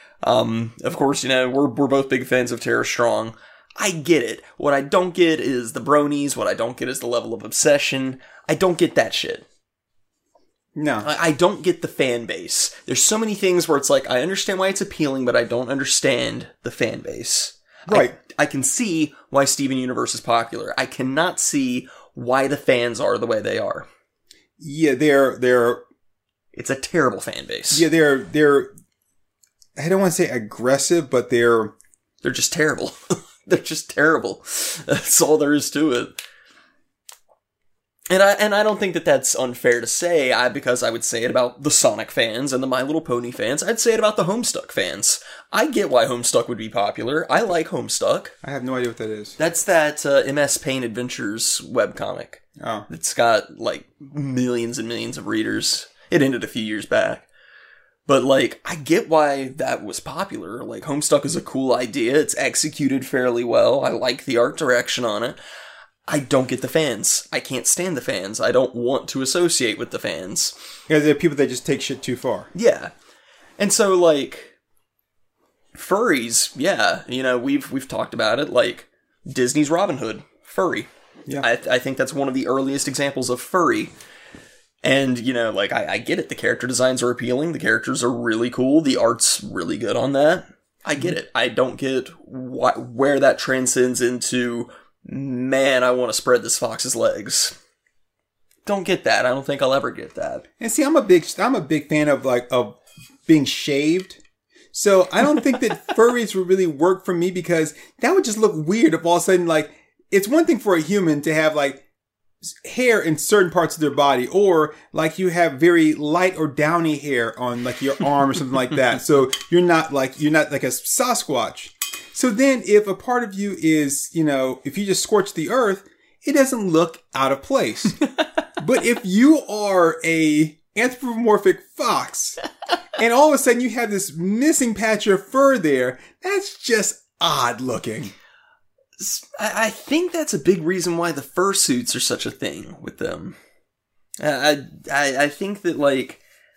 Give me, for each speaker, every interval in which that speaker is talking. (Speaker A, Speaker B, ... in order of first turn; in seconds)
Speaker A: 0.2-9.4, 11.0-23.9, 26.5-27.9, 32.2-36.1, 38.1-48.3, 49.4-57.3, 58.1-65.4, 66.1-70.5, 72.5-72.9, 73.6-74.5, 75.7-80.9, 81.4-83.9, 84.8-97.5, 98.7-100.4, 139.0-143.4, 144.2-146.2
Speaker B: 10.7-11.1, 17.9-18.1, 24.6-25.8, 27.7-28.7, 29.8-31.7, 48.4-49.4, 52.6-52.9, 70.9-72.5, 100.6-104.2, 104.7-111.8, 112.5-128.0, 128.6-132.4, 132.9-138.1